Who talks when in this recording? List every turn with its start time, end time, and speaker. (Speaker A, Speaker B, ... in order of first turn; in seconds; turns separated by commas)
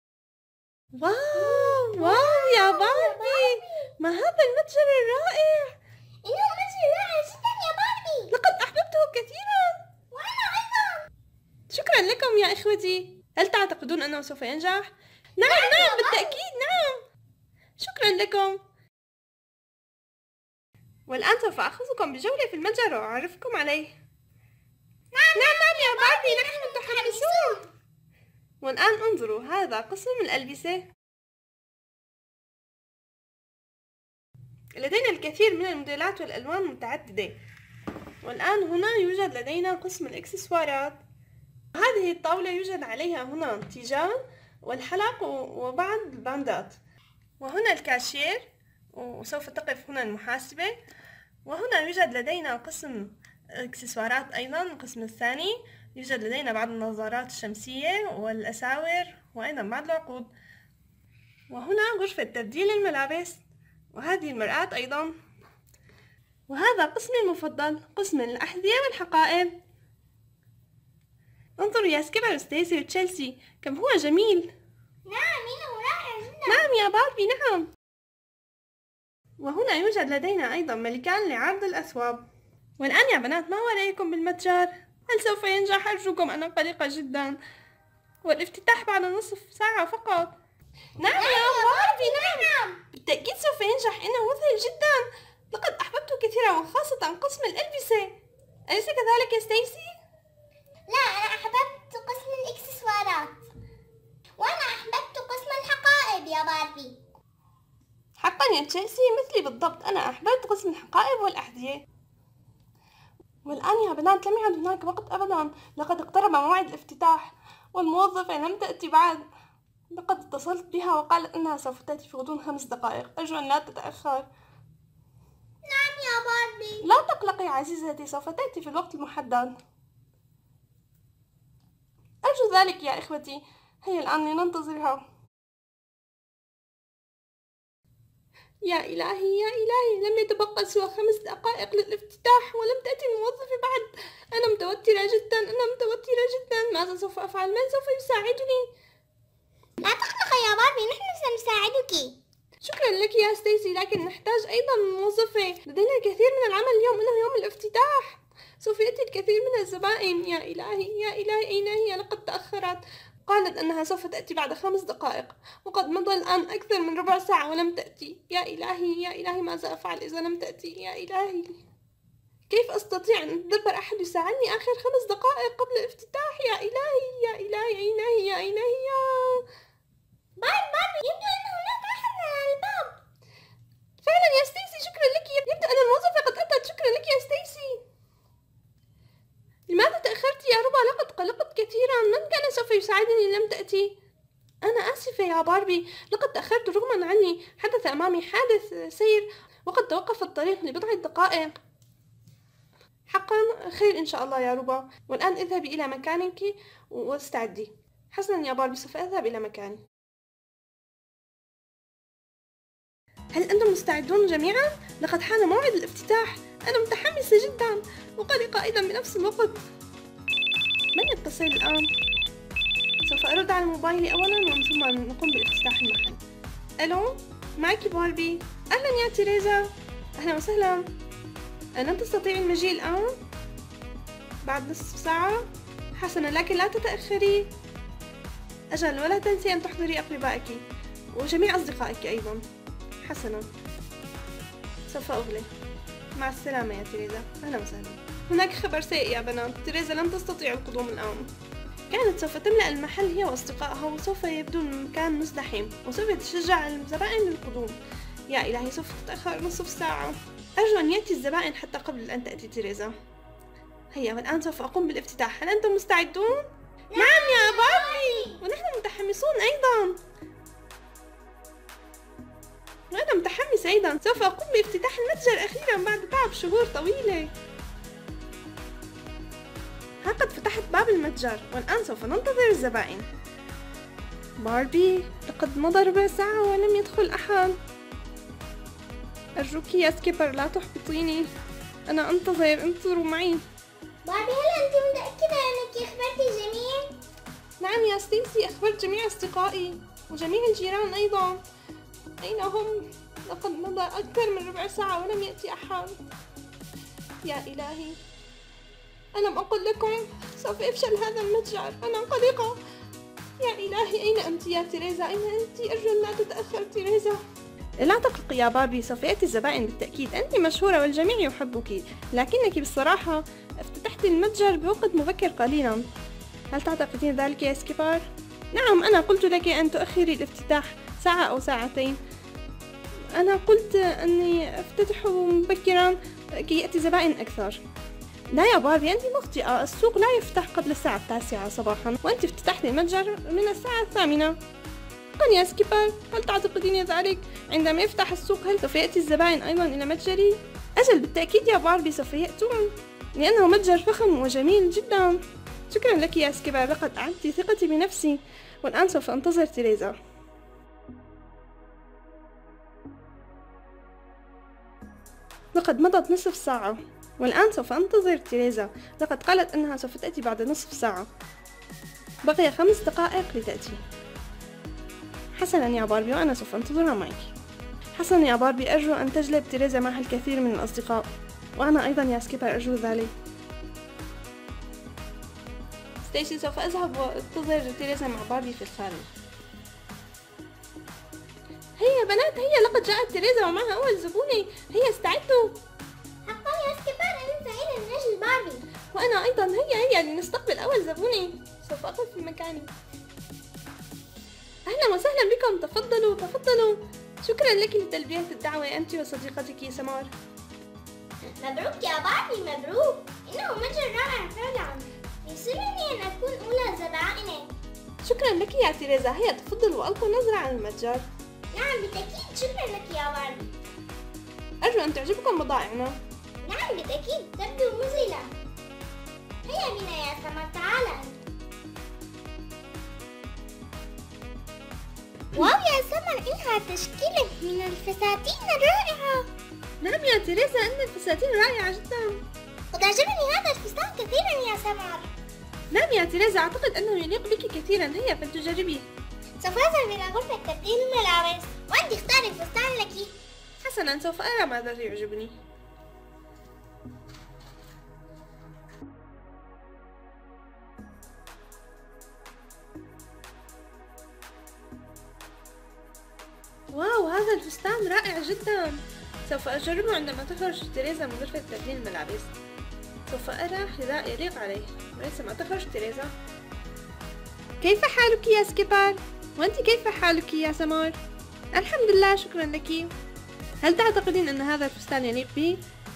Speaker A: 1.0-5.7, Speaker B: 1.3-3.9, Speaker B: 6.2-8.3, Speaker A: 8.3-9.8, Speaker B: 10.1-11.1, Speaker A: 11.7-17.0, Speaker B: 15.4-16.4, Speaker A: 17.8-18.6, Speaker A: 21.1-23.9, Speaker B: 25.1-27.7, Speaker A: 25.3-27.6, Speaker A: 28.6-30.9, Speaker A: 34.8-37.4, Speaker A: 38.2-41.0, Speaker A: 41.7-46.8, Speaker A: 47.4-50.8, Speaker A: 51.5-60.3, Speaker A: 61.5-63.4, Speaker A: 63.9-65.1, Speaker A: 66.5-69.5, Speaker A: 71.6-74.5, Speaker B: 75.0-76.7, Speaker A: 76.5-77.7, Speaker A: 79.4-82.2, Speaker A: 82.8-87.4, Speaker A: 88.2-90.3, Speaker A: 91.0-98.2, Speaker B: 91.1-92.8, Speaker A: 98.7-99.9, Speaker B: 100.9-103.4, Speaker B: 104.4-107.0, Speaker A: 108.2-111.8, Speaker A: 113.4-119.2, Speaker A: 119.9-124.3, Speaker B: 125.7-126.8, Speaker A: 126.8-129.5, Speaker A: 132.2-135.0, Speaker A: 138.7-148.7, Speaker B: 149.8-152.1, Speaker A: 152.6-171.6, Speaker A: 172.5-179.4, Speaker B: 180.4-183.0, Speaker A: 184.0-187.8, Speaker A: 189.7-193.9, Speaker A: 194.6-201.5, Speaker A: 203.1-209.8, Speaker A: 213.3-219.6, Speaker A: 220.9-221.9, Speaker A: 223.0-226.2, Speaker A: 226.8-230.9, Speaker A: 231.8-233.2, Speaker A: 234.4-237.5, Speaker A: 238.7-242.4, Speaker A: 243.0-243.5, Speaker A: 244.9-245.5, Speaker A: 246.2-251.3, Speaker A: 251.9-262.9, Speaker A: 263.9-270.0, Speaker B: 266.9-268.4, Speaker A: 272.9-277.3, Speaker A: 280.0-283.1, Speaker A: 284.4-287.6, Speaker A: 289.4-291.3, Speaker A: 291.9-293.4, Speaker B: 294.0-296.9, Speaker A: 297.6-301.4, Speaker A: 302.2-305.9, Speaker A: 307.2-308.0, Speaker A: 309.1-312.6, Speaker A: 313.4-317.2, Speaker A: 317.8-325.9, Speaker A: 326.5-332.0, Speaker A: 333.1-337.6, Speaker A: 338.3-344.4, Speaker A: 345.2-359.9, Speaker A: 365.5-371.1, Speaker A: 372.2-373.8, Speaker A: 375.4-377.3, Speaker A: 377.9-383.1, Speaker A: 386.0-389.1, Speaker A: 391.8-395.6, Speaker B: 396.2-398.6, Speaker A: 398.9-402.7, Speaker A: 404.6-410.1, Speaker B: 411.4-417.5, Speaker A: 418.0-421.0, Speaker B: 421.5-423.5, Speaker A: 424.6-426.0, Speaker B: 426.4-428.3, Speaker B: 429.4-431.2, Speaker B: 435.3-439.3, Speaker A: 439.8-442.2, Speaker B: 442.7-445.1, Speaker A: 445.7-448.9, Speaker B: 449.4-453.2, Speaker A: 453.6-455.4, Speaker A: 466.7-472.3, Speaker A: 473.1-476.1, Speaker A: 477.6-481.0, Speaker A: 481.5-482.9, Speaker A: 483.6-485.6